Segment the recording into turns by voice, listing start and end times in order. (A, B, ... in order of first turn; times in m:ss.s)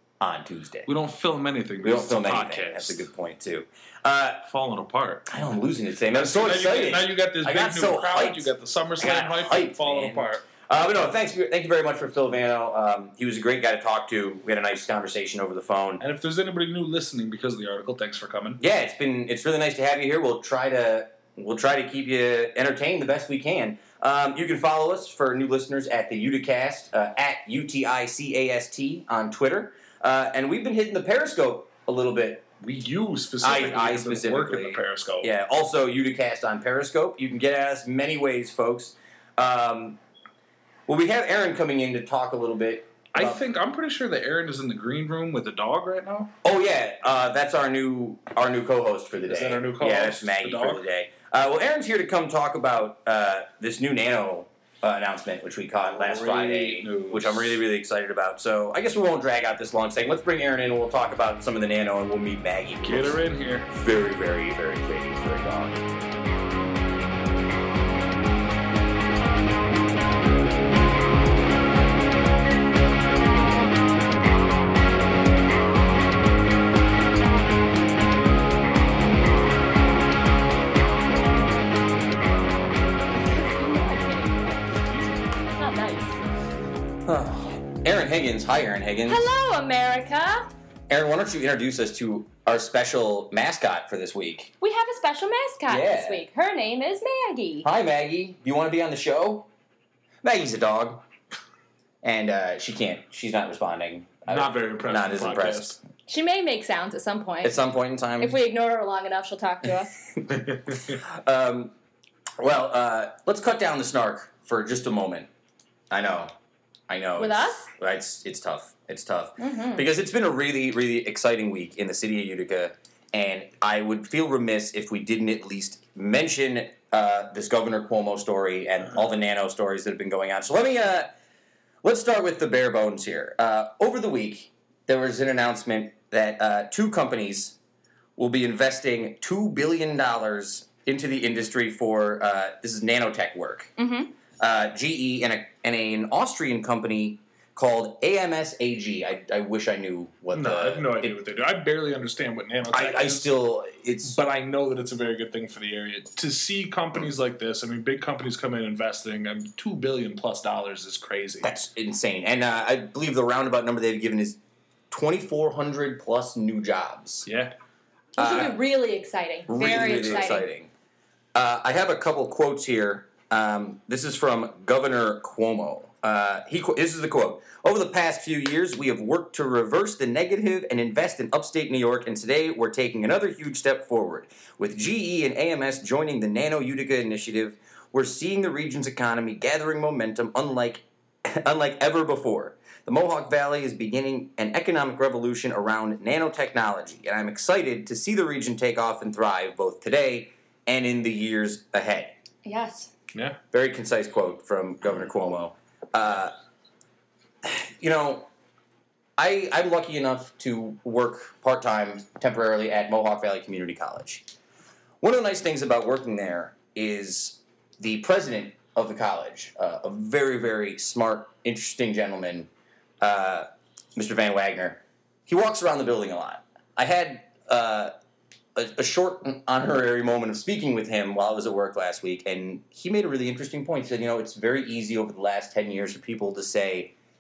0:00.2-0:00.9 A
0:00.9-0:03.1 B
0:01.8-0:04.4 A
0:04.4-0:05.3 B
0:05.3-0:16.0 A
0:06.1-0:10.5 B
0:16.0-0:18.6 B
0:18.6-0:32.5 A
0:32.6-0:35.3 B
0:33.4-0:40.0 A
0:40.9-0:43.4 A
0:43.1-0:46.3 B
0:46.4-1:05.8 A
0:49.3-0:50.9 B
0:55.8-0:57.6 B
1:02.8-1:03.7 B
1:23.2-1:26.2 C
1:27.1-1:29.3 A
1:29.1-1:30.5 C
1:30.9-1:34.5 A
1:34.6-1:37.7 C
1:35.7-1:36.2 A
1:37.6-1:39.5 A
1:40.2-1:41.0 A
1:42.0-1:45.8 A
1:44.3-1:45.8 B
1:46.1-1:47.6 C
1:47.4-1:48.4 A
1:48.2-1:50.0 C
1:50.3-1:51.7 A
1:52.4-1:55.3 A
1:55.9-1:56.3 A
1:56.9-2:11.1 A
1:57.2-1:57.7 C
1:59.4-1:59.9 C
2:11.8-2:17.6 A
2:18.2-2:23.8 A
2:23.8-2:24.1 C
2:24.4-2:31.2 A
2:30.3-2:33.3 B
2:32.7-2:34.2 A
2:34.0-2:41.5 B
2:41.4-2:44.4 A
2:44.9-2:47.3 A
2:47.3-2:47.5 B
2:48.2-2:48.6 A
2:48.2-2:50.5 C
2:49.5-2:50.7 A
2:51.4-3:22.2 A
3:22.4-3:22.9 C
3:23.1-3:23.4 B
3:23.5-3:26.4 A
3:27.4-3:28.3 A
3:29.2-3:34.3 A
3:35.0-3:42.5 A
3:43.0-3:47.9 A
3:48.6-3:56.9 A